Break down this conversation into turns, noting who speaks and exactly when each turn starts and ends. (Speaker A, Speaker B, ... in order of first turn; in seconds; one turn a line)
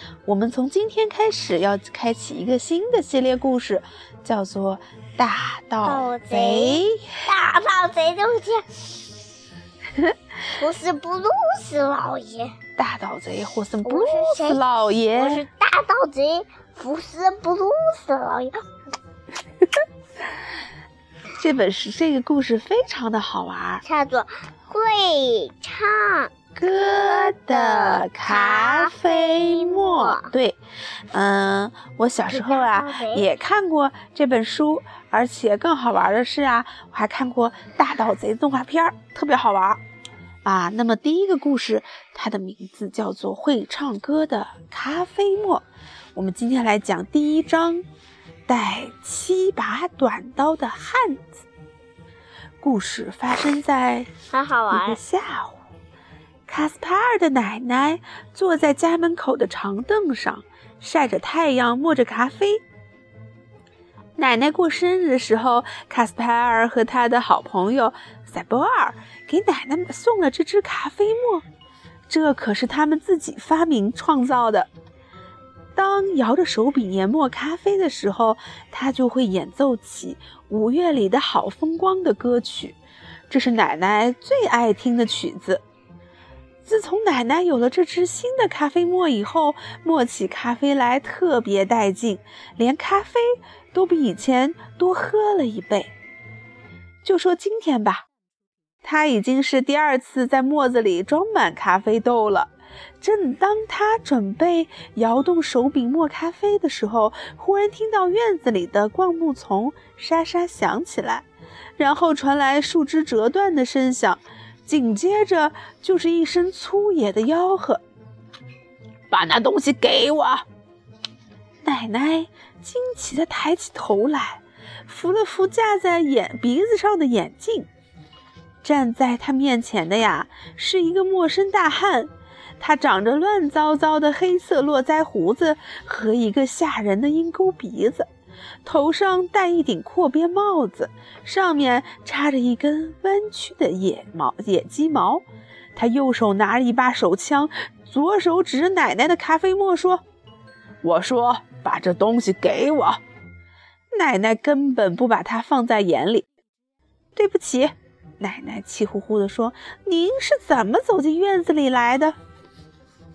Speaker A: 0.2-7.2
Speaker B: 5.8-8.7
Speaker B: 10.5-12.5
Speaker A: 12.8-15.4
Speaker B: 13.8-18.6
Speaker A: 21.4-23.8
Speaker B: 23.8-26.3
Speaker A: 26.5-30.6
Speaker B: 27.2-30.3
Speaker A: 31.1-39.8
Speaker B: 32.3-33.2
Speaker A: 40.4-45.6
Speaker A: 46.1-47.8
Speaker A: 48.5-51.5
Speaker A: 52.6-54.1
Speaker B: 54.3-55.0
Speaker A: 54.7-55.6
Speaker A: 56.5-62.6
Speaker A: 64.2-71.4
Speaker A: 72.1-74.7
Speaker A: 75.8-82.8
Speaker A: 83.3-85.6
Speaker A: 86.6-95.9
Speaker A: 97.0-98.1
Speaker A: 98.8-111.2
Speaker A: 111.8-117.8
Speaker A: 119.1-120.4
Speaker A: 121.6-127.7
Speaker A: 128.6-138.1
Speaker A: 138.6-145.2
Speaker A: 145.8-150.0
Speaker A: 150.8-153.0
Speaker A: 153.9-156.3
Speaker A: 157.2-162.1